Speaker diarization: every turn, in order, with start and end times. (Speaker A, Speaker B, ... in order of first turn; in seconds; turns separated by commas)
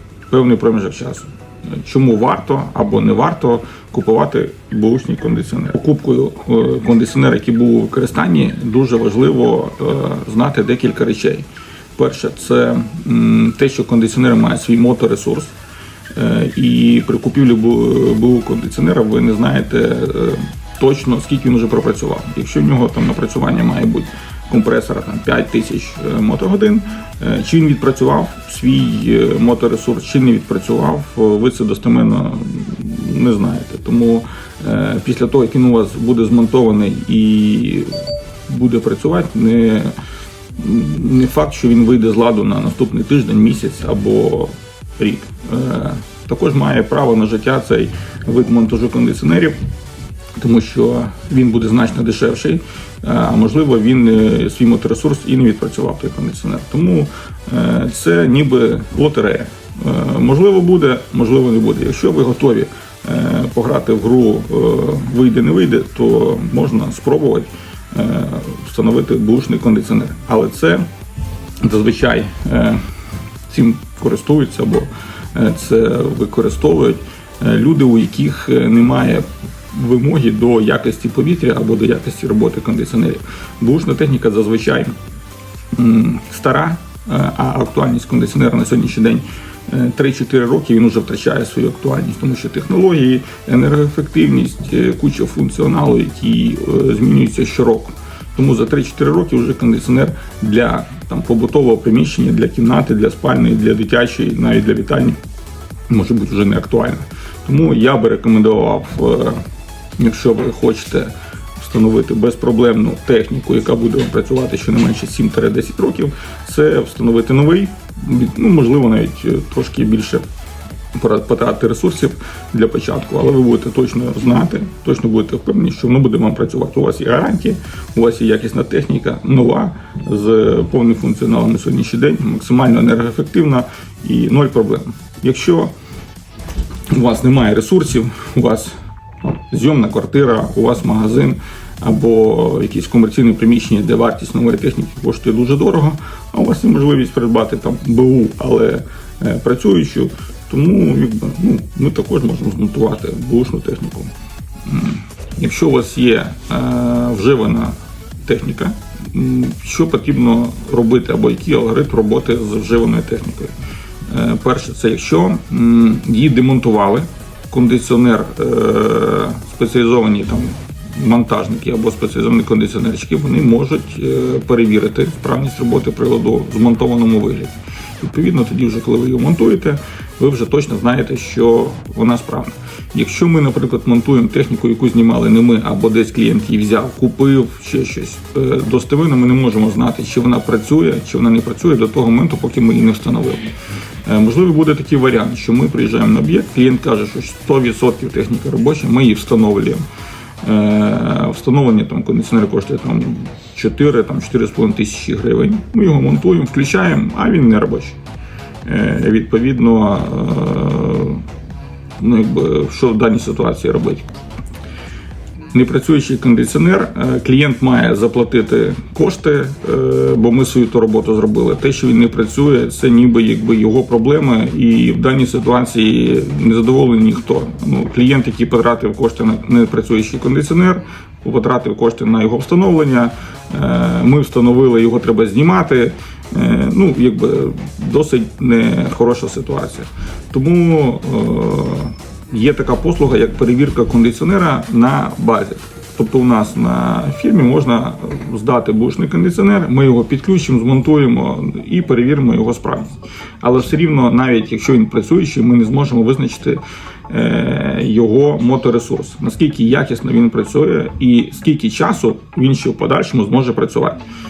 Speaker A: 0.3-15.5, Speaker A: 16.1-40.0, Speaker A: 40.6-49.6, Speaker A: 50.4-70.9, Speaker A: 71.6-72.8, Speaker A: 73.5-84.9, Speaker A: 85.7-105.2, Speaker A: 105.9-109.4, Speaker A: 110.0-120.2, Speaker A: 121.0-135.7, Speaker A: 136.9-154.1, Speaker A: 154.7-163.5, Speaker A: 164.1-193.5, Speaker A: 194.1-199.8, Speaker A: 200.4-208.0, Speaker A: 208.7-211.2, Speaker A: 212.0-214.1, Speaker A: 215.5-264.0